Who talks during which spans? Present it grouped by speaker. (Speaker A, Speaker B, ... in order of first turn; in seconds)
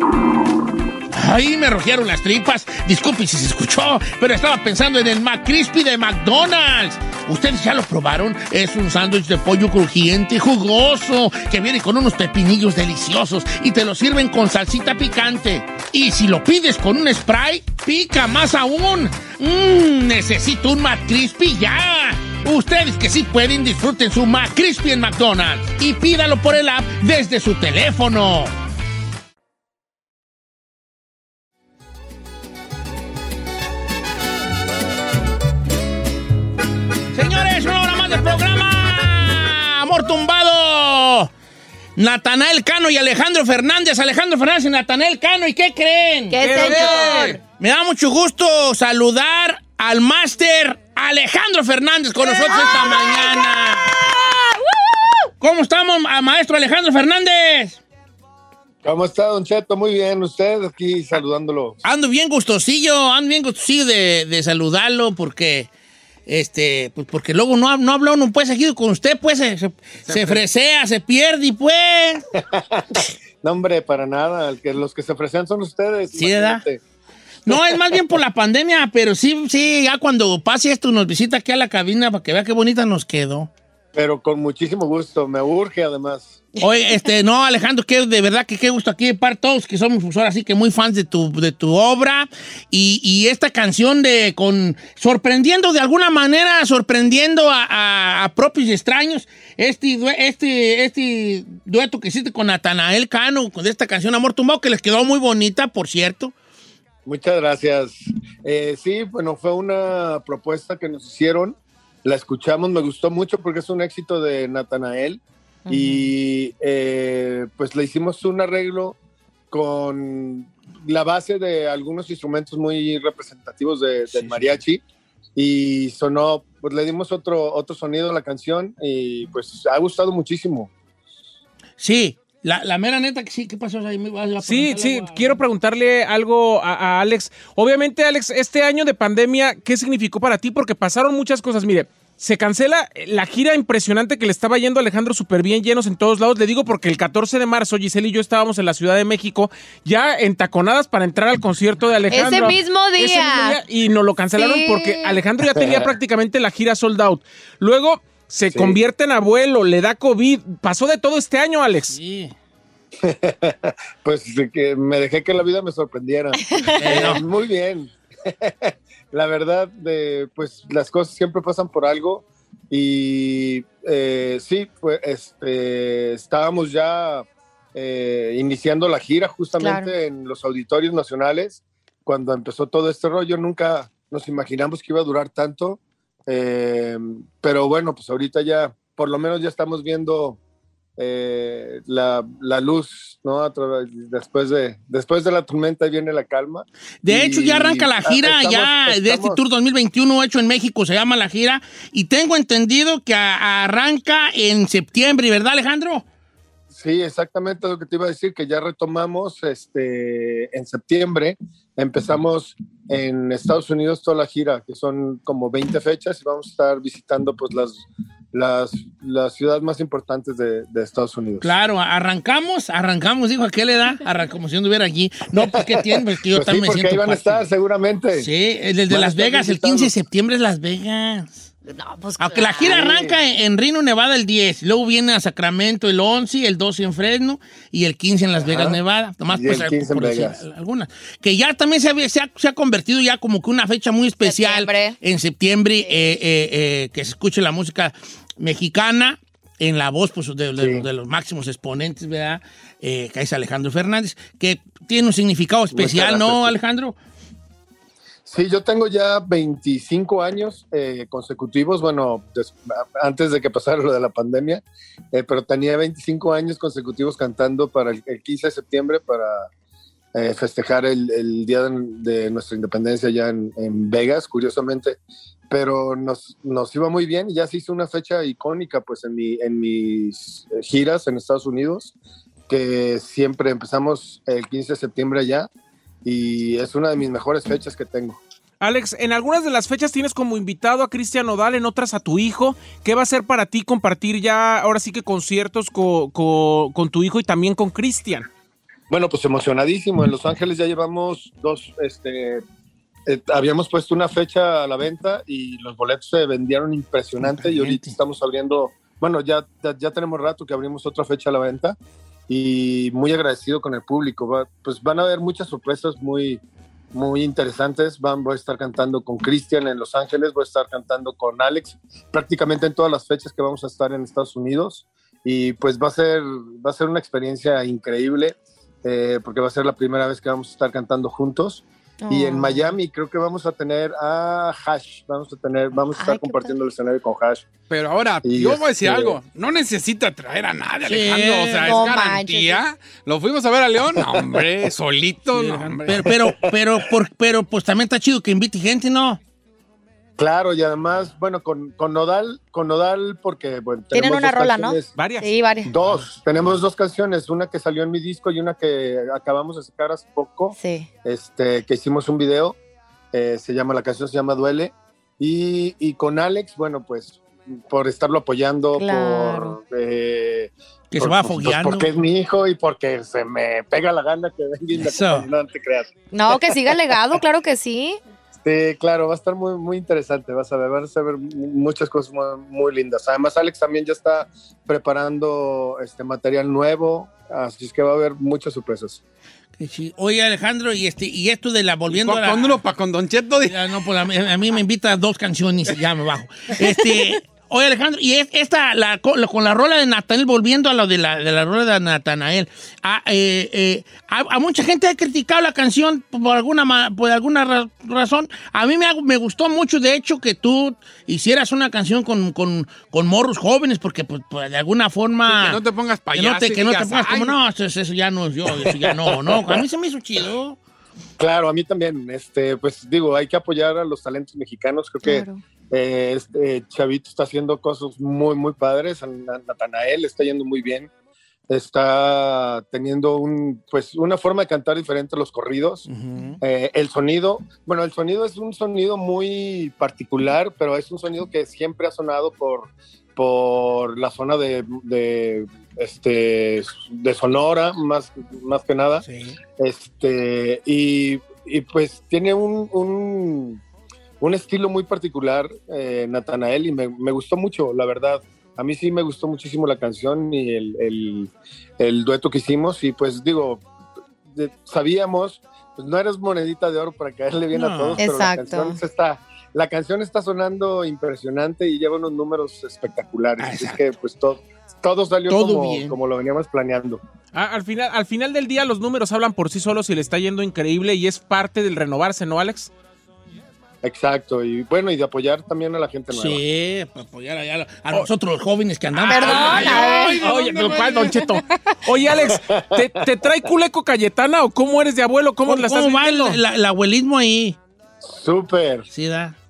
Speaker A: 1.1-28.5, 37.1-41.3, 42.0-54.0, 55.4-57.8, 61.8-65.7, 66.3-72.2, 76.1-76.6, 77.5-83.5, 86.6-106.3, 124.1-124.6, 131.8-135.4, 161.9-162.3, 166.8-167.2, 197.0-206.0, 221.4-227.5, 228.2-231.4, 232.2-256.9, 307.2-307.9, 340.8-341.8, 345.3-349.2, 370.9-371.9, 374.7-375.3, 389.6-392.6, 393.4-415.6, 416.1-420.6, 435.9-436.4, 449.0-449.4, 467.5-468.1, 473.4-473.8, 475.3-475.9, 486.1-489.9, 495.4-497.6, 498.9-499.3
Speaker B: 46.3-47.4, 52.2-54.6, 115.7-116.1, 152.1-153.6, 154.4-155.2, 166.5-166.8, 179.6-179.9, 231.7-232.7, 244.2-244.9, 332.0-332.7, 335.9-336.6, 341.6-342.6, 353.9-355.7, 360.5-360.9, 368.7-369.6, 376.1-378.0, 425.0-425.4, 468.0-468.8, 489.1-490.2
Speaker C: 46.4-47.4, 134.4-162.0, 288.6-298.3, 354.9-356.1, 477.3-482.7, 489.2-496.4
Speaker D: 46.6-47.2, 70.1-70.4, 337.7-346.2, 391.9-393.5, 415.3-417.4, 489.0-491.2
Speaker E: 58.8-61.8, 72.5-76.8, 77.5-78.0, 83.9-86.5, 107.0-119.0, 119.5-124.8, 125.3-130.7, 155.5-155.9, 158.5-158.8, 163.0-190.4, 191.0-199.4, 206.7-221.5, 225.3-228.3, 228.9-229.9, 232.6-233.2, 238.3-238.8, 239.3-240.4, 250.6-250.8, 255.7-256.5, 258.2-269.5, 270.1-275.0, 275.5-281.9, 282.5-285.5, 286.0-288.2, 298.9-302.4, 303.1-311.8, 312.3-316.4, 316.9-337.5, 338.2-339.2, 343.9-344.4, 346.0-346.9, 350.2-354.9, 355.6-362.6, 363.1-377.2, 378.4-389.0, 418.5-419.6, 421.2-430.9, 431.5-435.9, 436.4-449.0, 449.6-453.6, 454.2-463.6, 464.3-477.0, 483.8-486.4, 492.1-493.5, 498.0-498.9